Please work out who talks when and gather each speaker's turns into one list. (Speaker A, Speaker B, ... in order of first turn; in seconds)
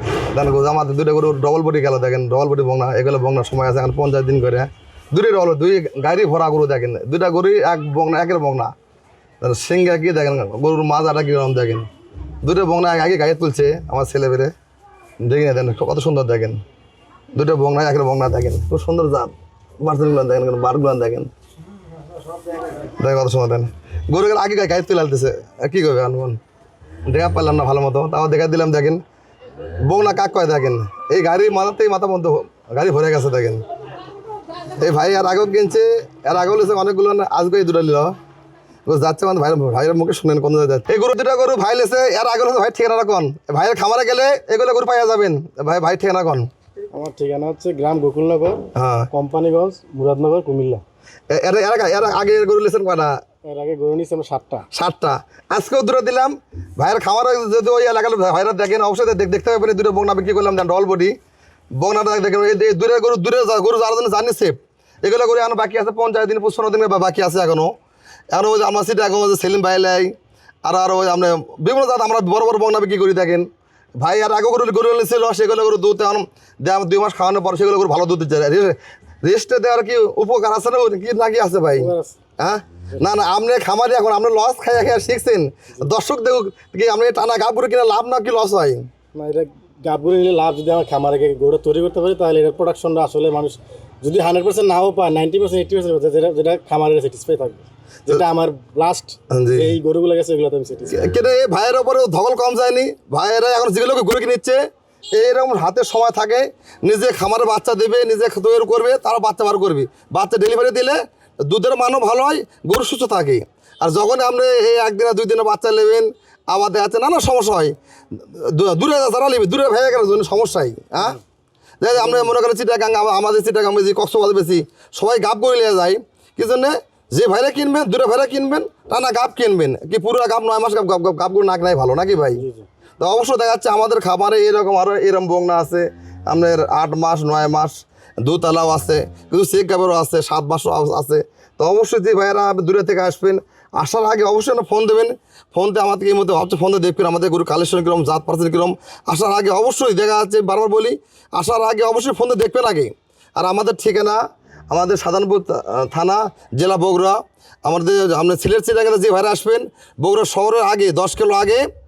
Speaker A: 0.3-8.7, 9.4-11.9, 12.4-14.5, 15.2-16.6, 17.3-21.3, 23.0-26.4, 27.1-29.0, 29.8-33.6, 34.8-38.1, 38.9-46.5, 48.7-49.1, 51.3-53.1, 54.7-61.1, 61.8-67.7, 68.3-70.1, 70.6-73.5, 74.0-88.8, 99.3-99.7, 100.9-104.6, 105.1-121.2, 121.8-132.4, 133.0-154.2, 154.7-161.6
Speaker B: 46.9-50.8, 53.4-54.7, 81.7-82.2, 89.1-101.2, 132.4-132.7